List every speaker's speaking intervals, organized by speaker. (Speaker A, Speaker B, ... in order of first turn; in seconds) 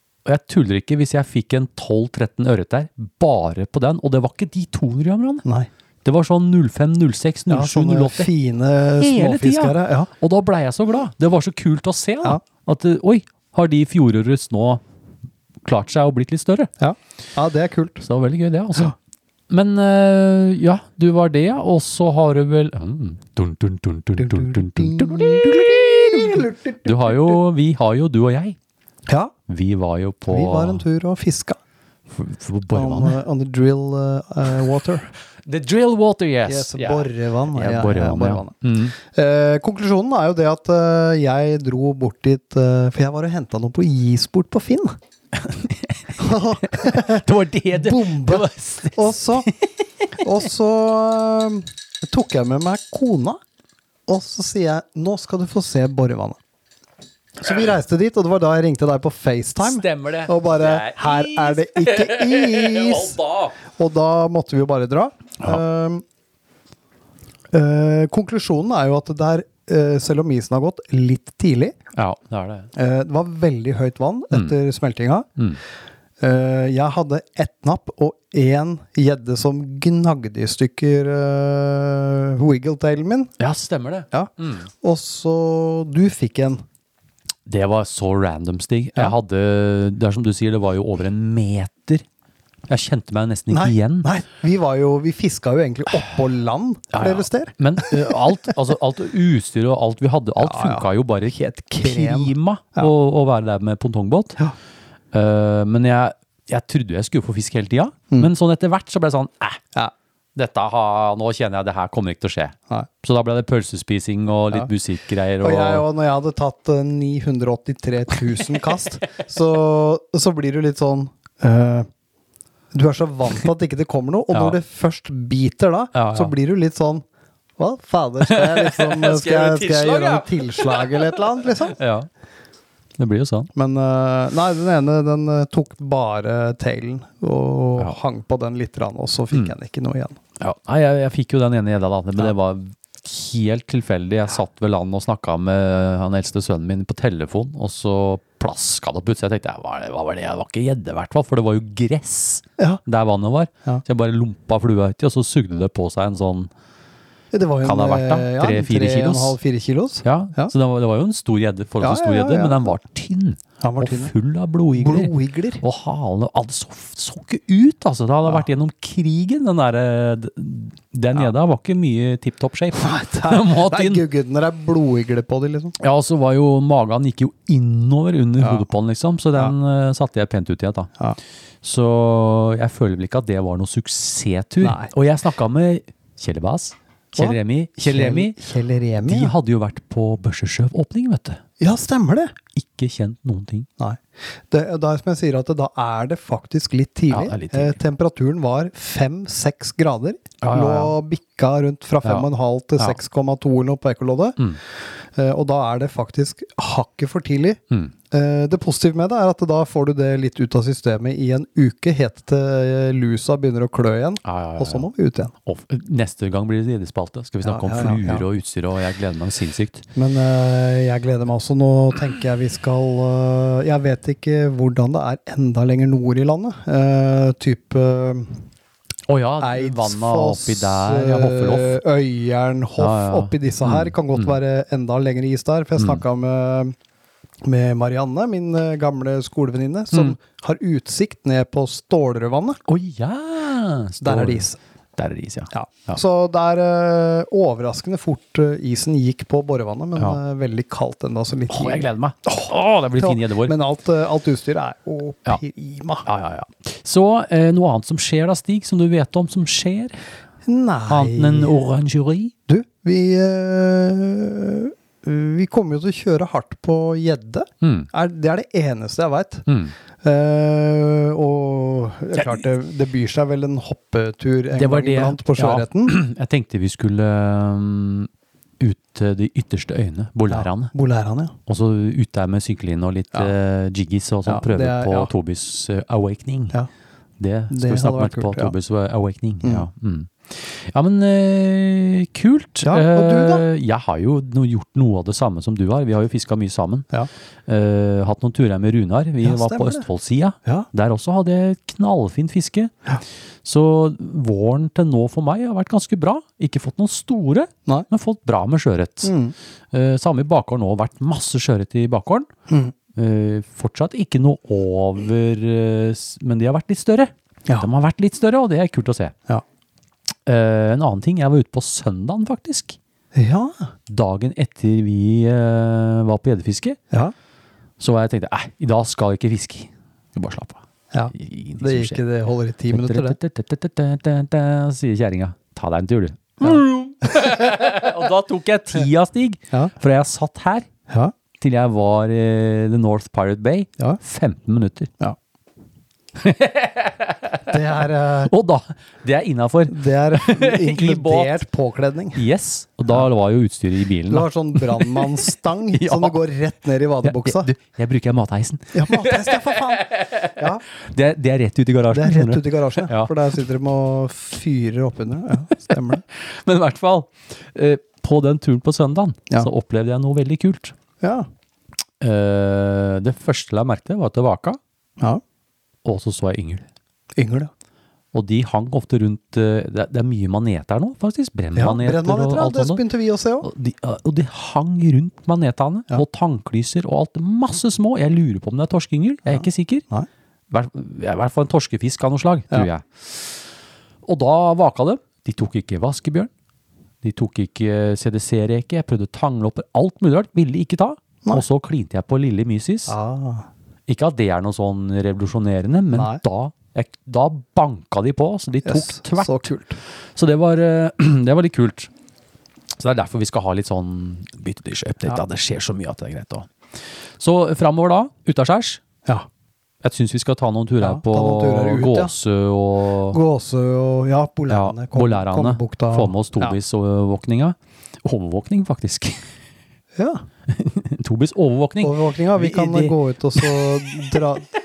Speaker A: 0.2-5.5, 6.0-8.3, 9.0-14.8, 15.6-16.7, 18.0-18.9, 19.5-28.6, 29.5-30.8, 32.1-33.2, 35.5-38.9, 45.4-49.5, 59.6-63.5, 71.9-72.7, 83.4-84.7, 87.5-92.0, 92.7-94.1, 96.9-104.4, 105.1-109.6, 110.3-115.8, 124.3-124.6, 125.9-126.3, 128.2-131.1, 131.7-132.1, 133.0-133.5, 140.4-156.5, 157.6-159.3, 160.0-174.0, 175.8-180.9, 181.6-188.4, 189.0-191.4, 192.5-193.7, 197.1-197.8, 200.4-200.9, 202.0-203.0, 214.2-214.9, 215.4-219.8, 229.1-231.8, 232.8-234.3, 235.8-236.0, 242.7-246.0, 251.5-253.5, 256.1-260.0, 260.9-262.3, 267.6-267.9, 269.5-269.7, 274.5-278.1, 278.6-280.7, 281.5-286.6, 287.2-296.9, 297.5-302.7, 303.4-309.1, 309.7-312.3, 312.9-319.1, 320.2-322.8, 323.9-326.8, 327.8-332.0, 332.7-340.7, 341.4-344.9, 346.2-351.4, 352.1-355.2, 355.7-356.2, 357.0-363.1, 366.1-370.7, 372.0-374.6, 375.8-376.6, 378.1-382.8, 383.4-389.8, 390.5-393.4, 394.0-396.3, 397.0-402.9, 403.9-409.5, 410.1-411.9, 412.7-416.5, 417.2-418.8, 419.8-423.2, 424.5-429.3, 430.5-434.2
Speaker B: 7.5-10.1, 16.8-18.0, 24.2-27.4, 29.1-29.3, 30.3-31.6, 32.7-35.1, 36.4-45.0, 46.2-49.5, 50.2-53.4, 54.1-56.4, 57.4-66.0, 67.5-71.8, 72.7-75.3, 76.2-83.3, 84.1-86.6, 93.5-98.2, 100.4-102.9, 115.4-121.9, 122.7-127.0, 127.6-131.8, 133.5-140.2, 157.3-160.5, 161.8-162.7, 163.6-164.1, 164.7-165.6, 172.8-175.8, 178.4-178.7, 184.6-184.9, 187.2-189.3, 191.6-192.3, 193.8-204.4, 205.1-215.3, 217.4-218.2, 219.9-228.4, 229.4-236.7, 237.4-242.6, 244.0-244.6, 245.5-251.9, 252.9-256.0, 260.4-261.5, 262.5-269.4, 270.0-275.9, 280.3-281.3, 284.2-285.1, 287.5-288.5, 292.6-293.4, 299.2-299.9, 309.0-309.3, 312.5-312.7, 323.1-323.7, 330.9-333.2, 340.9-341.1, 347.5-348.3, 349.7-352.2, 354.1-357.5, 358.7-360.6, 361.9-366.0, 371.0-371.3, 377.1-377.5, 381.5-383.5, 389.2-390.1, 402.9-403.5, 405.9-406.2, 408.6-409.8, 420.8-422.1, 423.1-426.5, 429.9-430.3, 431.8-434.5